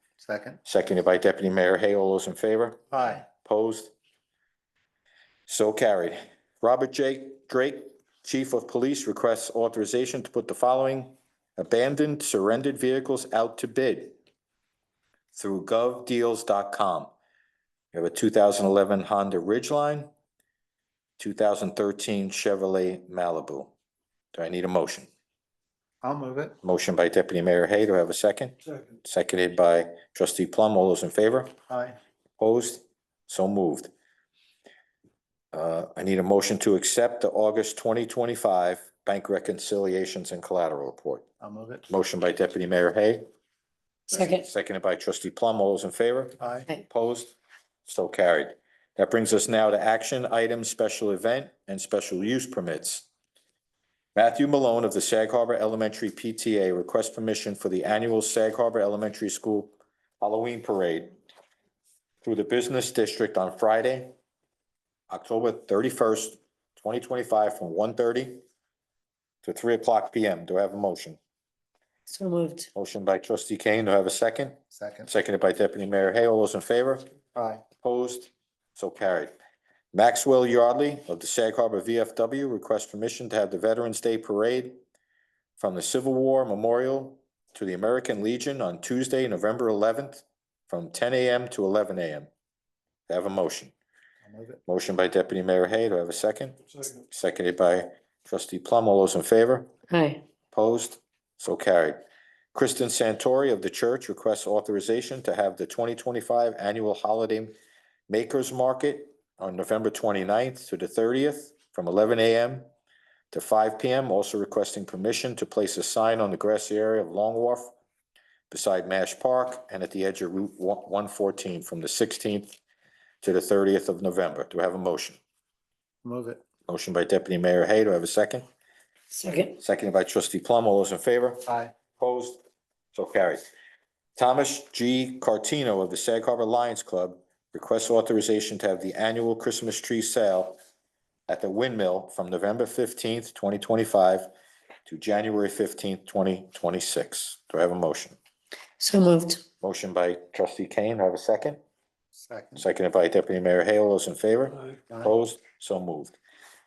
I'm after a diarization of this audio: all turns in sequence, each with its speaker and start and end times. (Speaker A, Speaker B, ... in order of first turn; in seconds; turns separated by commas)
Speaker A: 0.2-0.6, Speaker B: 0.7-3.9, Speaker A: 2.9-3.2, Speaker B: 5.5-14.2, Speaker B: 15.3-17.1, Speaker B: 17.9-20.1, Speaker B: 21.2-23.7, Speaker B: 24.3-25.1, Speaker A: 26.0-26.6, Speaker B: 26.6-31.5, Speaker A: 31.7-32.0, Speaker B: 32.4-33.9, Speaker B: 35.5-41.2, Speaker A: 41.4-41.8, Speaker B: 41.9-43.2, Speaker C: 44.1-44.5, Speaker B: 44.1-53.1, Speaker A: 46.4-46.7, Speaker B: 54.1-61.1, Speaker B: 62.2-64.1, Speaker B: 65.1-68.4, Speaker B: 69.4-71.2, Speaker C: 72.1-72.7, Speaker B: 72.7-77.1, Speaker A: 74.8-75.1, Speaker A: 77.4-77.6, Speaker B: 77.8-79.3, Speaker B: 79.9-84.8, Speaker B: 85.6-92.3, Speaker B: 93.1-93.7, Speaker A: 94.3-94.6, Speaker B: 94.7-99.7, Speaker C: 99.9-100.2, Speaker B: 100.5-102.0, Speaker B: 102.5-107.5, Speaker B: 108.1-112.7, Speaker B: 113.3-117.7, Speaker B: 118.5-122.6, Speaker B: 123.2-125.2, Speaker A: 126.0-126.4, Speaker B: 126.7-128.4, Speaker C: 129.1-129.6, Speaker B: 129.6-132.4, Speaker A: 131.5-131.7, Speaker B: 132.9-133.4, Speaker B: 134.2-140.6, Speaker B: 141.3-144.3, Speaker B: 144.9-148.2, Speaker C: 148.8-149.4, Speaker B: 149.6-151.6, Speaker A: 152.2-152.6, Speaker B: 152.6-156.2